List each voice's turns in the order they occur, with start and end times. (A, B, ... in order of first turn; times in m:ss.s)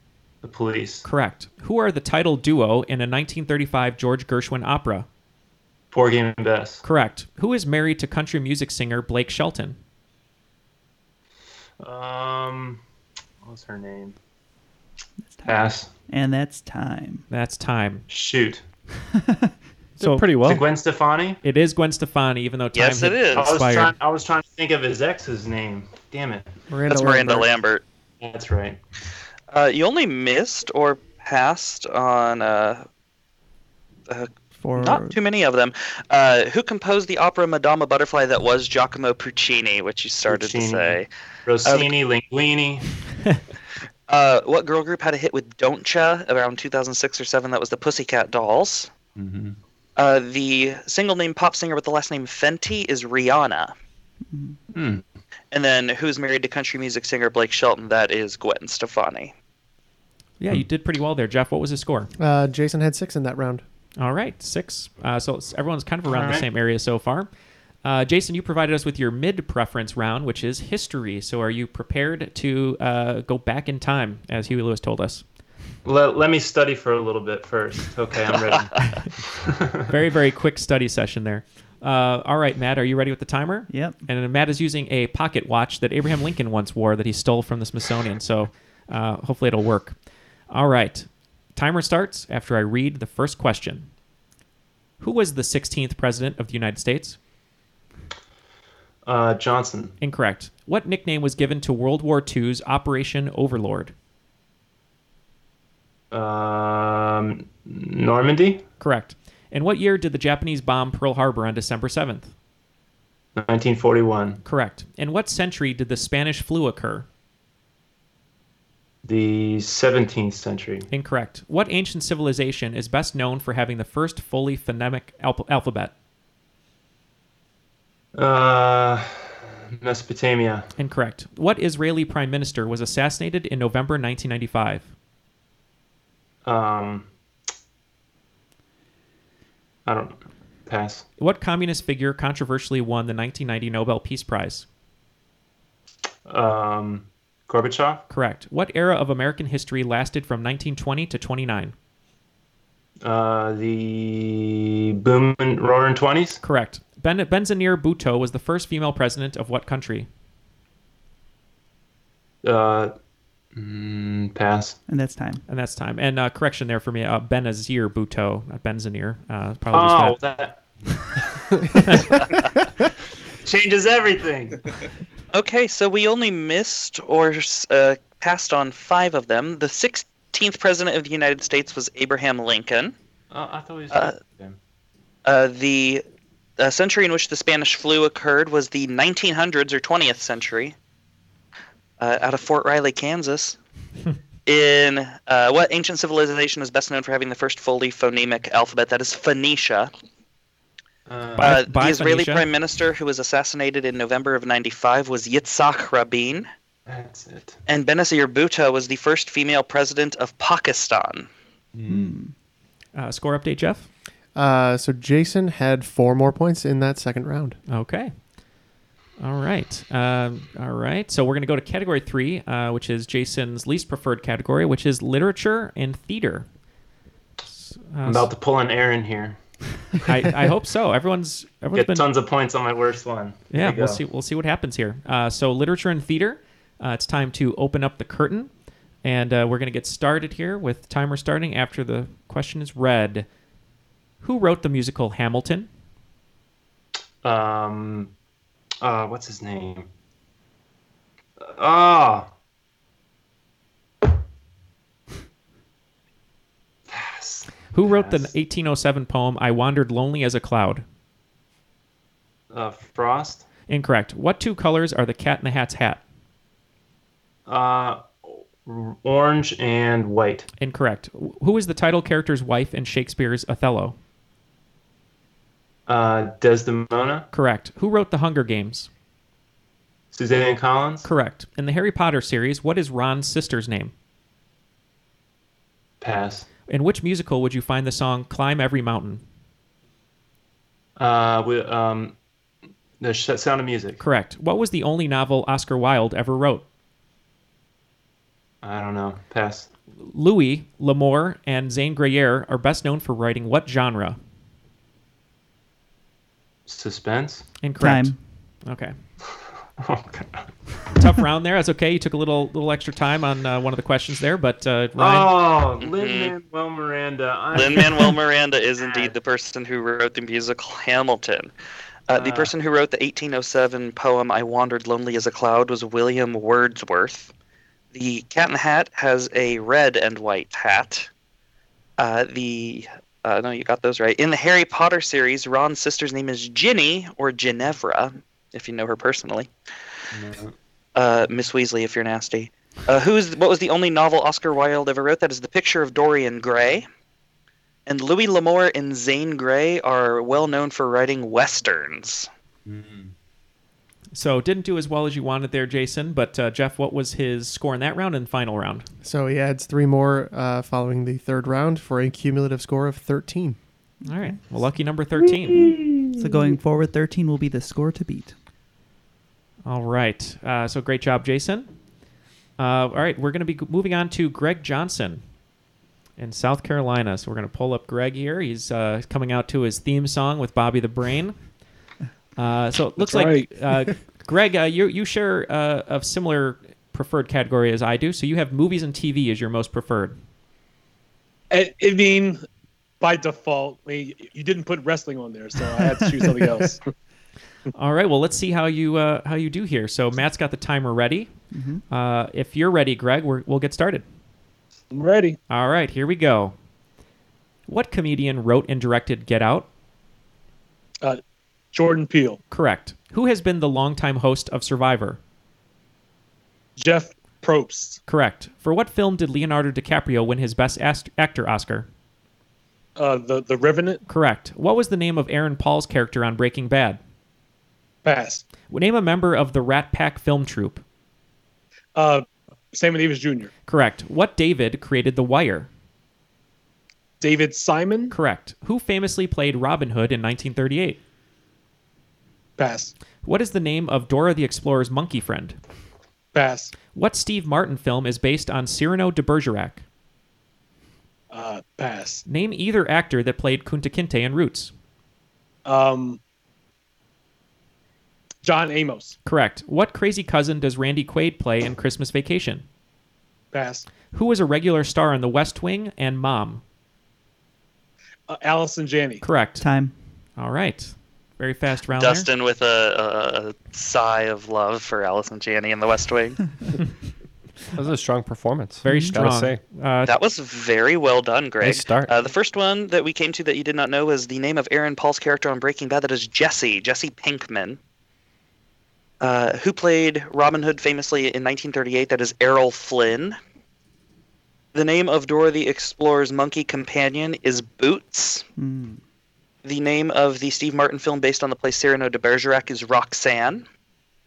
0:00.4-0:01.0 A
0:01.0-0:05.1 B
0:05.9-0:06.8 A
0:06.8-0:09.8 B
0:11.8-0:12.8 A
0:13.4-0:14.2 A
0:15.2-0:17.2 C
0:15.4-0:15.9 A
0:17.3-0:18.0 B
0:18.1-0:18.6 A
0:19.2-0:19.5 C
0:20.0-0:20.7 D
0:20.0-0:20.3 B
0:20.4-0:21.4 A
0:21.4-0:24.0 B
0:22.7-0:23.6 E
0:23.3-0:26.5 A
0:26.7-0:27.5 F
0:26.9-0:27.8 E
0:28.2-0:28.8 A
0:29.5-0:32.8 E
0:34.1-0:41.1 E
0:34.6-0:35.2 C
0:40.2-0:42.8 A
0:41.6-0:41.9 E
0:44.1-0:48.9 E
0:49.2-0:49.6 A
0:50.0-0:53.7 E
0:54.3-0:54.6 C
0:54.7-0:55.0 A
0:55.5-0:59.3 E
1:00.4-1:02.1 B
1:02.2-1:03.6 F
1:04.0-1:07.3 B
1:06.0-1:06.5 A
1:07.8-1:15.2 B
1:15.8-1:18.7 A
1:18.5-1:19.0 E
1:19.9-1:30.0 B
1:23.7-1:24.0 C
1:30.5-1:33.9 B
1:35.0-1:37.2 B
1:39.0-1:39.9 A
1:40.0-1:43.9 B
1:46.1-1:48.6 A
1:48.8-1:52.3 B
1:53.4-1:54.4 A
1:54.4-1:57.1 B
1:59.0-2:00.9 A
2:00.9-2:05.9 B
2:08.1-2:10.7 A
2:10.8-2:14.9 B
2:16.4-2:17.1 A
2:19.8-2:21.0 A
2:21.2-2:24.6 B
2:26.2-2:28.0 A
2:28.1-2:31.7 B
2:33.0-2:36.4 A
2:36.4-2:40.1 B
2:42.4-2:42.9 A
2:43.5-2:44.8 A
2:44.9-2:45.4 C
2:45.5-2:50.2 B
2:49.7-2:50.6 A
2:51.9-2:52.2 B
2:53.4-2:54.6 A
2:55.3-3:02.9 E
3:03.3-3:04.6 A
3:05.2-3:06.0 E
3:06.6-3:10.7 E
3:12.0-3:13.6 E
3:14.4-3:19.9 E
3:21.1-3:21.5 A
3:21.4-3:22.4 B
3:21.4-3:26.5 E
3:26.8-3:27.6 A
3:27.7-3:31.3 E
3:31.7-3:32.1 A
3:31.9-3:32.3 C
3:32.9-3:33.9 B
3:34.3-3:37.6 F
3:37.7-3:38.1 B
3:39.2-3:46.4 B
3:47.6-3:48.3 B
3:48.0-3:49.4 A
3:50.0-3:52.1 B
3:51.7-3:54.0 A
3:53.5-3:58.5 B
3:59.0-4:03.2 B
4:04.2-4:05.7 B
4:07.2-4:08.1 A
4:08.8-4:09.9 A
4:11.4-4:12.3 A
4:16.9-4:18.3 A
4:17.7-4:20.8 B
4:22.5-4:23.4 A
4:23.7-4:26.0 B
4:27.4-4:30.5 A
4:30.6-4:34.0 B
4:35.9-4:37.3 A
4:37.3-4:38.9 B
4:40.1-4:41.0 A
4:41.0-4:43.9 B
4:46.0-4:46.5 A
4:46.7-4:49.2 B
4:51.0-4:52.2 A
4:53.0-4:54.0 A
4:54.0-4:56.6 B
4:58.6-4:59.7 A
5:00.0-5:04.2 B
5:06.7-5:07.5 A
5:07.6-5:08.9 B
5:07.8-5:08.2 C
5:09.8-5:10.4 A
5:10.9-5:15.3 B
5:15.0-5:18.2 A
5:15.8-5:16.3 E
5:17.5-5:21.5 E
5:18.8-5:19.1 A
5:22.1-5:27.3 E
5:22.1-5:22.5 A
5:27.9-5:31.1 E
5:32.0-5:39.5 E
5:40.1-5:40.5 A
5:41.0-5:46.8 E
5:47.9-5:52.3 E
5:52.6-5:53.1 A
5:54.1-5:58.9 B
5:59.0-6:03.6 F
6:04.0-6:04.4 C
6:04.1-6:05.8 B
6:06.2-6:08.3 C
6:09.6-6:11.7 B
6:12.6-6:15.2 B
6:16.2-6:21.4 B
6:22.4-6:30.2 B
6:23.0-6:23.5 G
6:31.5-6:32.4 G
6:33.0-6:36.8 G
6:37.7-6:41.3 B
6:41.5-6:41.8 C
6:41.9-6:44.0 B
6:44.9-6:45.4 G
6:45.5-6:46.5 B
6:47.7-6:49.7 B
6:51.7-6:52.4 G
6:52.5-6:55.2 B
6:56.8-6:58.0 G
6:58.1-7:01.9 B
7:03.0-7:04.0 G
7:04.1-7:07.0 B
7:08.0-7:08.4 G
7:08.7-7:10.8 B
7:12.0-7:13.5 G
7:13.7-7:15.7 B
7:17.2-7:18.1 G
7:18.1-7:21.0 B
7:22.6-7:22.9 G
7:23.2-7:25.6 B
7:26.3-7:26.7 G
7:26.9-7:29.8 B
7:31.3-7:32.2 G
7:32.3-7:34.7 B
7:35.6-7:36.2 G
7:38.4-7:39.2 G
7:39.2-7:42.6 B
7:43.5-7:43.8 G
7:44.1-7:46.6 B
7:48.3-7:49.2 G
7:49.2-7:49.7 B
7:49.6-7:49.9 C
7:50.4-7:52.3 B
7:51.9-7:56.4 E
7:57.8-7:59.6 D
7:58.8-7:59.2 C
7:58.8-8:00.1 B
8:00.0-8:07.8 E
8:01.6-8:02.2 D
8:09.2-8:13.4 E
8:14.7-8:18.4 E
8:18.6-8:19.0 C
8:19.6-8:23.6 E